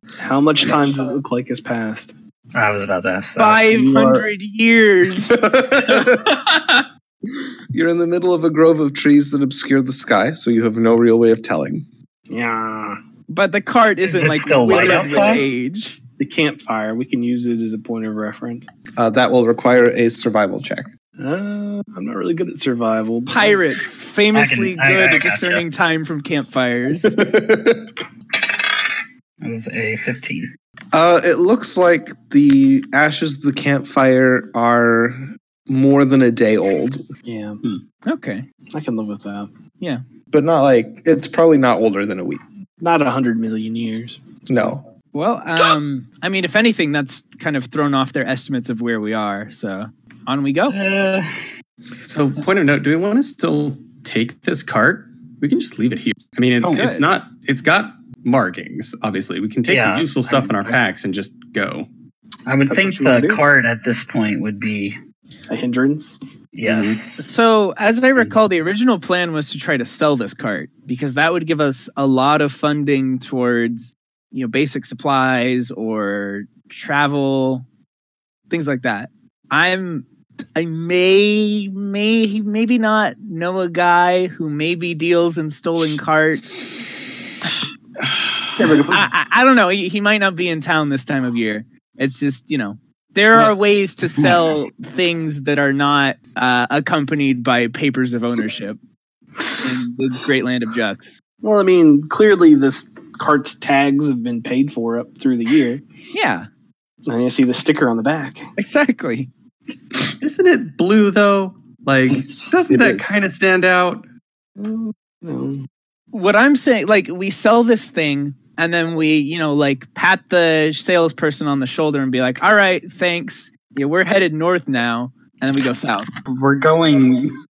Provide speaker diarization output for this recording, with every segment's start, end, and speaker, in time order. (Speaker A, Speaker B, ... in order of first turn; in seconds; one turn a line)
Speaker A: 0.2-2.1
Speaker B: 2.5-3.7
Speaker C: 3.4-5.4
Speaker D: 3.7-4.3
Speaker D: 5.2-6.4
Speaker D: 7.7-11.9
Speaker A: 12.3-13.0
Speaker C: 13.3-16.0
Speaker B: 14.0-15.4
Speaker A: 14.7-15.4
Speaker A: 16.2-18.7
Speaker D: 19.0-20.9
Speaker A: 21.2-23.6
Speaker C: 23.3-27.2
Speaker B: 24.3-25.6
Speaker D: 27.0-27.9
Speaker B: 29.4-30.5
Speaker D: 30.9-37.0
Speaker A: 37.2-37.6
Speaker C: 38.0-38.5
Speaker A: 38.7-39.5
Speaker D: 40.3-42.4
Speaker A: 42.8-44.3
Speaker D: 44.5-44.8
Speaker C: 45.1-50.8
Speaker B: 50.7-51.3
Speaker E: 52.0-61.9
Speaker C: 56.6-57.0
Speaker B: 59.6-60.8
Speaker B: 62.5-65.0
Speaker A: 62.7-63.4
Speaker A: 65.5-66.2
Speaker B: 66.5-67.2
Speaker E: 66.6-67.0
Speaker C: 67.2-77.7
Speaker C: 78.5-86.8
Speaker E: 88.6-88.9
Speaker C: 88.7-98.8
Speaker C: 99.6-101.2
Speaker A: 101.4-105.8
Speaker C: 106.1-106.5
Speaker A: 107.1-108.5
Speaker C: 108.6-109.3
Speaker E: 110.2-114.0
Speaker A: 114.6-115.7
Speaker C: 116.1-126.1
Speaker B: 126.2-127.3